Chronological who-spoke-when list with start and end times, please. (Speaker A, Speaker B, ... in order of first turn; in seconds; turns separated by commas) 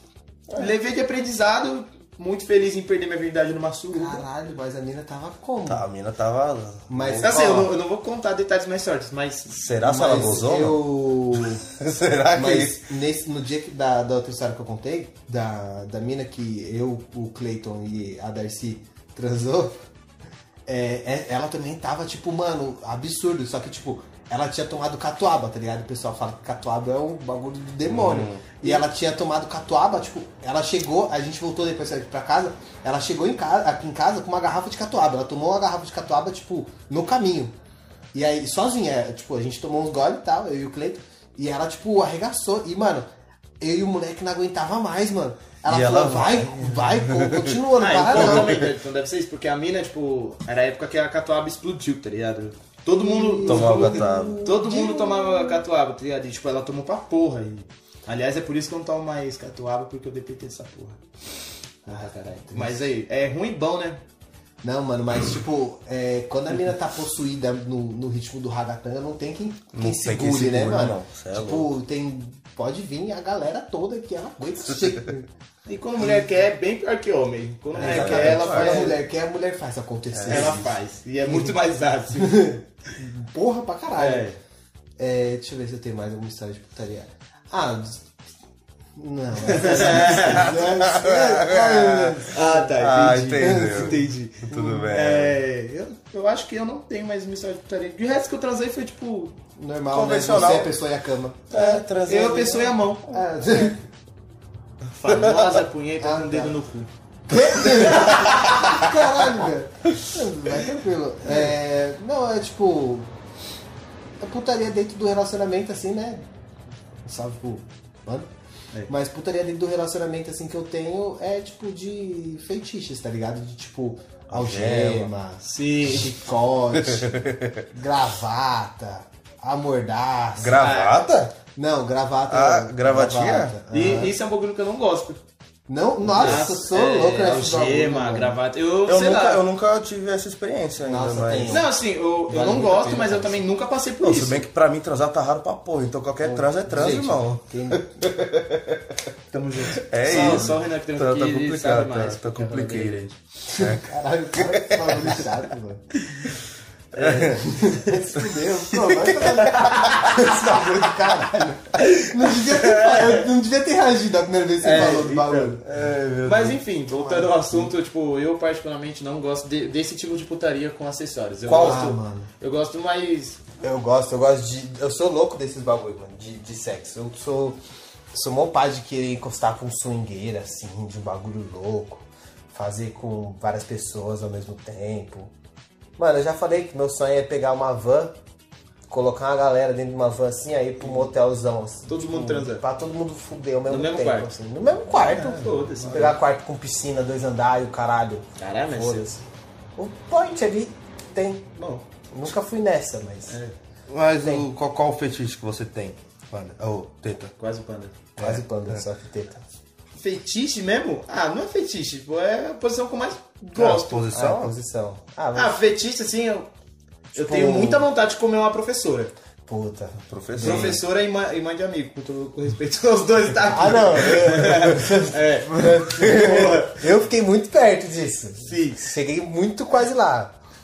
Speaker A: 0.5-4.2, Speaker B: 3.9-5.8, Speaker C: 5.7-7.5, Speaker B: 6.9-7.7, Speaker A: 7.2-9.6, Speaker C: 9.5-12.8, Speaker B: 9.8-11.6, Speaker B: 12.3-19.8, Speaker B: 20.7-37.5, Speaker C: 27.9-28.5, Speaker B: 38.1-43.1, Speaker B: 43.6-48.6, Speaker C: 45.7-48.7, Speaker A: 47.8-61.0, Speaker B: 52.9-55.6, Speaker C: 53.5-54.4, Speaker A: 61.9-64.0, Speaker B: 61.9-62.8, Speaker B: 64.6-75.3, Speaker C: 69.7-71.7, Speaker A: 75.7-79.0, Speaker C: 77.8-79.0, Speaker B: 77.8-81.5, Speaker C: 80.1-80.6, Speaker A: 80.3-82.6, Speaker B: 82.2-84.3, Speaker A: 84.0-84.4, Speaker B: 85.0-88.1, Speaker B: 89.0-92.6, Speaker A: 89.5-90.5, Speaker C: 90.0-95.4, Speaker A: 92.3-99.4, Speaker B: 93.4-93.9, Speaker B: 99.6-101.8, Speaker C: 99.9-100.8, Speaker C: 101.5-102.9, Speaker A: 101.5-103.2, Speaker B: 103.0-103.8, Speaker A: 105.0-106.9, Speaker C: 105.1-105.5, Speaker B: 106.0-106.5, Speaker B: 107.3-113.1, Speaker A: 107.6-108.5, Speaker B: 114.2-116.3, Speaker B: 117.0-118.3, Speaker B: 118.9-127.1, Speaker C: 124.3-125.1, Speaker A: 125.4-126.2, Speaker C: 126.8-127.6, Speaker B: 127.7-130.7, Speaker C: 130.4-131.3, Speaker A: 130.6-131.0, Speaker B: 131.6-134.1, Speaker C: 132.3-133.6, Speaker A: 133.7-135.2, Speaker B: 135.7-138.3, Speaker A: 136.1-139.4, Speaker C: 136.1-136.4, Speaker C: 138.8-141.7, Speaker B: 140.8-141.7, Speaker A: 141.5-144.4, Speaker B: 142.3-143.4, Speaker C: 144.0-149.0, Speaker B: 146.2-148.1, Speaker A: 149.3-153.0, Speaker C: 149.7-155.3, Speaker B: 150.1-150.6, Speaker B: 153.5-155.9, Speaker B: 156.9-165.6, Speaker C: 156.9-157.4, Speaker C: 158.7-159.7, Speaker A: 159.6-160.1, Speaker A: 161.9-163.3, Speaker A: 164.6-165.6, Speaker C: 164.7-166.6, Speaker A: 166.2-173.4, Speaker B: 166.9-167.7, Speaker B: 171.5-172.3, Speaker B: 173.6-177.6, Speaker B: 178.1-185.3, Speaker B: 186.0-188.2, Speaker B: 188.9-199.2, Speaker A: 191.9-192.6, Speaker A: 193.7-194.3, Speaker A: 194.9-196.2, Speaker A: 198.4-199.2, Speaker B: 199.8-201.5, Speaker A: 201.6-201.8, Speaker B: 202.1-203.4, Speaker C: 203.9-207.3, Speaker A: 207.4-208.1, Speaker C: 208.2-208.8, Speaker B: 208.2-209.4, Speaker A: 210.0-214.1, Speaker C: 213.6-214.5, Speaker B: 214.1-215.6, Speaker A: 215.3-216.5, Speaker B: 217.2-217.8, Speaker A: 217.2-219.1, Speaker B: 219.5-220.8, Speaker C: 220.0-220.8, Speaker A: 220.4-226.8, Speaker B: 223.5-230.3, Speaker A: 228.4-228.9